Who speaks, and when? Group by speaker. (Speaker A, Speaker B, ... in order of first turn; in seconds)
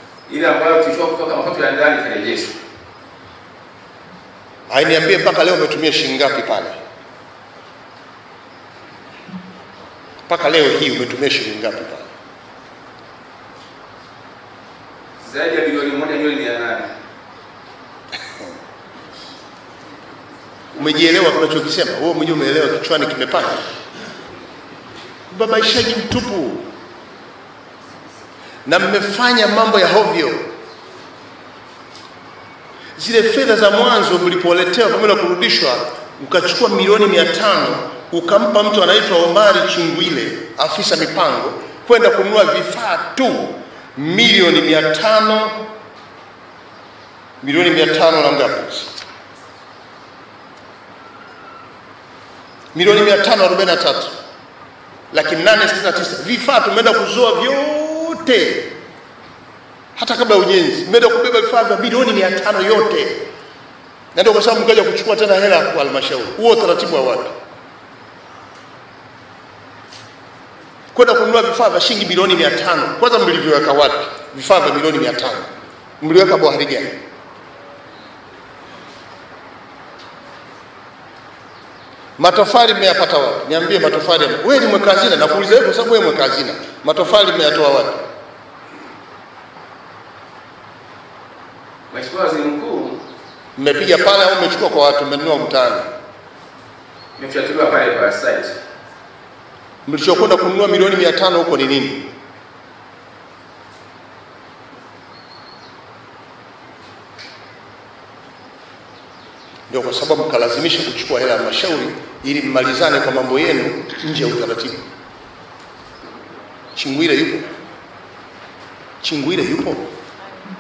Speaker A: 0.3-2.6, 15.2-16.9, 91.9-93.0, 97.2-98.6
Speaker B: 4.7-6.8, 10.3-12.1, 20.7-23.7, 25.3-26.7, 28.7-30.5, 33.0-45.7, 47.4-49.0, 52.7-54.1, 55.1-58.7, 60.0-63.2, 64.1-67.3, 70.9-75.5, 76.0-77.0, 82.2-88.0, 93.6-95.9, 99.9-102.1, 109.7-114.8, 116.8-117.5, 119.0-119.9